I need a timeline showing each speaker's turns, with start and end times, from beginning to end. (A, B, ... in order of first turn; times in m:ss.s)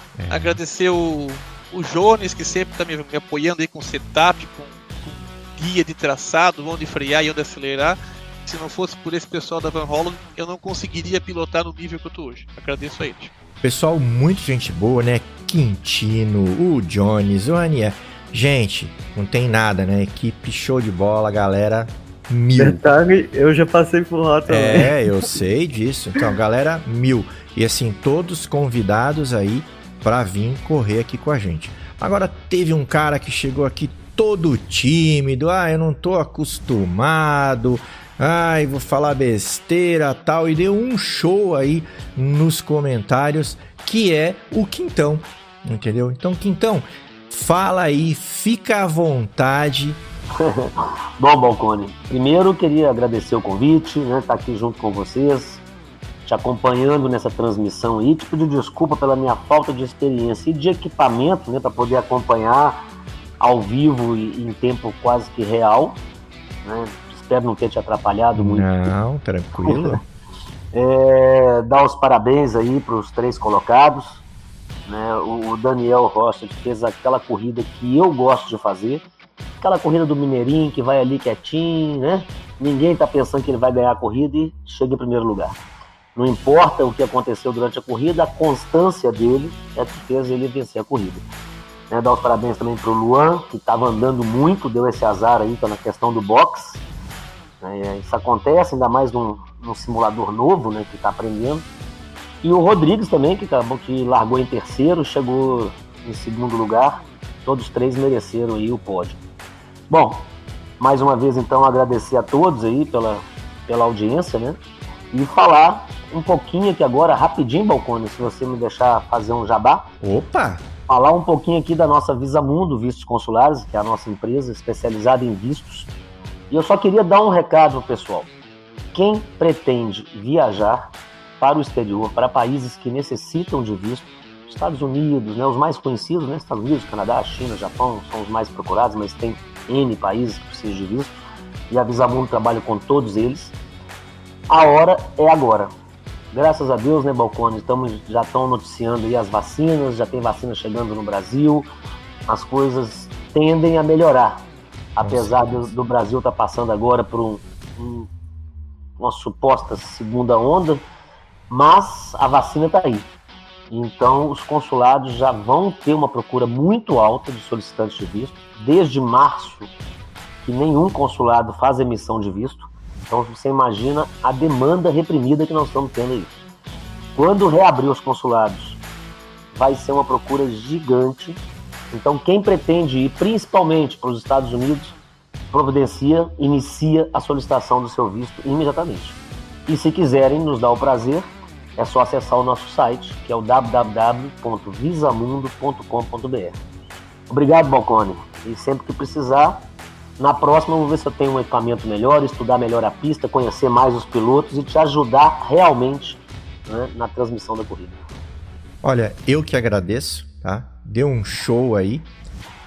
0:00.2-0:00.6 A
0:00.3-0:13.3 B
0:13.6-0:22.8 A
0:22.6-0:24.9 C
0:24.5-0:50.0 A
0:50.4-0:55.6 D
0:56.2-1:02.8 D
1:03.4-1:06.0 D
1:06.6-1:08.9 D
1:08.3-1:10.0 A
1:09.6-1:10.0 D
1:10.7-1:14.2 D
1:14.8-1:19.0 D
1:19.6-1:25.6 D
1:26.2-1:31.2 D
1:31.9-1:36.8 D
1:37.6-1:41.6 D
1:42.4-1:49.2 D
1:49.9-1:54.6 D
1:55.1-1:59.9 D
2:00.0-2:00.7 A
2:00.9-2:05.9 D
2:06.5-2:08.3 D
2:08.9-2:21.2 D
2:21.7-2:23.6 D
2:24.5-2:25.7 D
2:26.3-2:31.7 D
2:32.3-2:38.1 D
2:35.0-2:35.7 A
2:39.0-2:40.8 D
2:41.5-2:43.1 D
2:43.7-2:49.7 D
2:50.4-2:56.3 D
2:57.1-2:58.8 D
2:59.5-3:01.4 D
3:01.9-3:05.0 D
3:05.5-3:16.6 D
3:17.3-3:19.6 D
3:20.2-3:28.0 D
3:28.8-3:32.1 A